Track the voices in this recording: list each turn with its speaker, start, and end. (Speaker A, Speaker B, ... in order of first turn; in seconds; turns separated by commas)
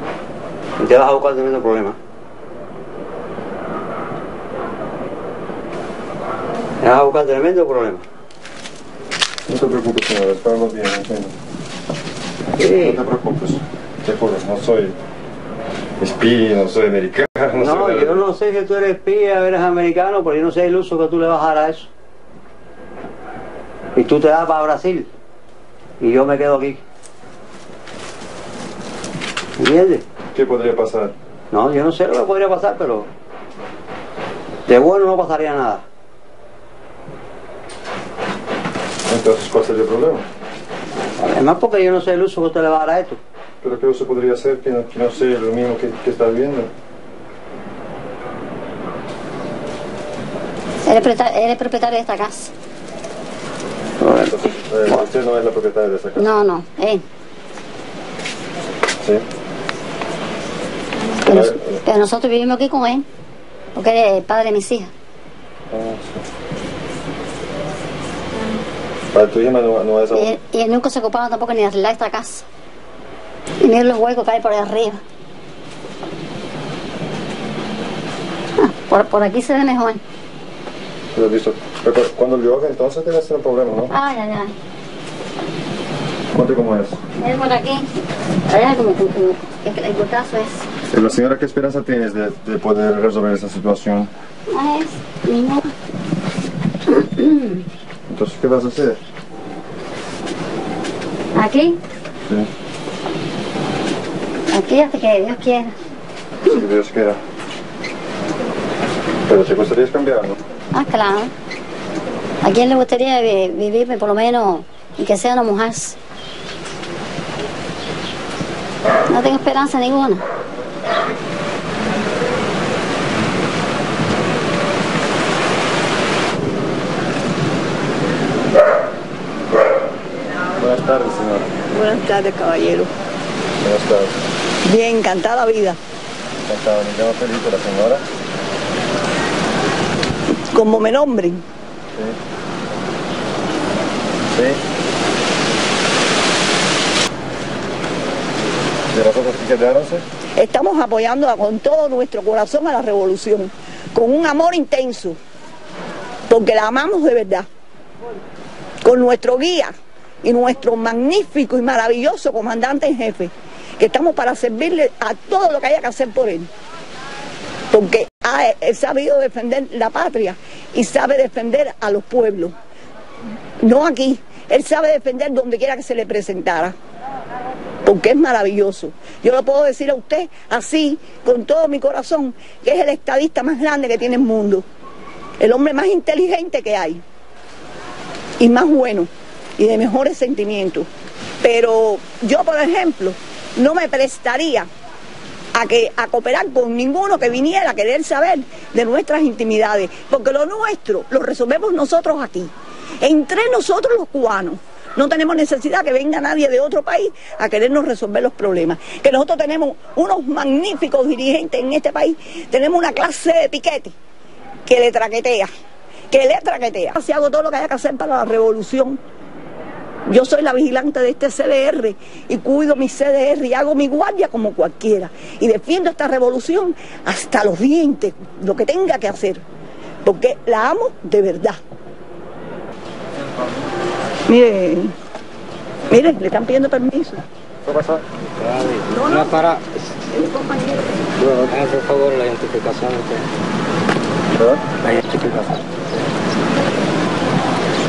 Speaker A: 0.8-2.0, Speaker A: 6.8-8.0, Speaker B: 9.5-11.3, Speaker A: 12.6-13.0, Speaker B: 12.7-14.9, Speaker B: 16.0-18.2, Speaker A: 17.6-21.9, Speaker A: 23.9-25.1, Speaker A: 26.0-26.8, Speaker A: 29.6-30.0, Speaker B: 30.3-31.1, Speaker A: 31.5-33.1, Speaker A: 34.7-35.8, Speaker B: 39.1-40.2, Speaker A: 41.2-43.2, Speaker B: 43.6-46.7, Speaker C: 50.9-52.5, Speaker A: 54.0-55.0, Speaker B: 54.3-56.3, Speaker C: 56.2-57.0, Speaker B: 61.2-61.7, Speaker C: 61.2-63.0, Speaker C: 63.7-64.9, Speaker B: 65.7-66.2, Speaker B: 69.1-70.3, Speaker C: 70.1-72.4, Speaker C: 73.6-75.0, Speaker C: 78.6-80.0, Speaker B: 81.1-83.9, Speaker C: 83.9-84.5, Speaker B: 86.3-87.0, Speaker C: 87.2-87.9, Speaker C: 88.5-90.7, Speaker B: 90.9-94.1, Speaker C: 94.5-95.7, Speaker C: 96.9-97.6, Speaker B: 98.1-99.0, Speaker C: 101.3-101.8, Speaker C: 104.5-105.7, Speaker B: 106.4-107.2, Speaker B: 109.3-110.4, Speaker C: 110.7-111.3, Speaker C: 112.4-116.0, Speaker C: 119.1-120.2, Speaker B: 130.6-131.5, Speaker D: 131.7-132.9, Speaker B: 133.6-134.2, Speaker D: 134.6-135.8, Speaker B: 136.4-138.0, Speaker D: 140.5-141.4, Speaker B: 144.3-144.6, Speaker B: 148.9-150.0, Speaker D: 150.4-155.2, Speaker D: 156.3-157.5, Speaker D: 158.8-159.7, Speaker D: 160.2-166.5, Speaker D: 167.7-172.5, Speaker D: 173.6-176.7, Speaker D: 177.8-184.7, Speaker D: 185.4-187.0, Speaker D: 188.4-190.9, Speaker D: 191.4-194.7, Speaker D: 195.5-213.9, Speaker D: 214.7-215.5, Speaker D: 216.1-219.0, Speaker D: 220.1-229.4, Speaker D: 230.0-231.6, Speaker D: 234.3-234.9, Speaker D: 235.9-237.2, Speaker B: 237.6-238.0, Speaker E: 238.4-239.7, Speaker D: 238.9-239.5, Speaker D: 240.1-241.0, Speaker E: 241.2-243.2, Speaker B: 244.3-244.7, Speaker E: 244.8-245.5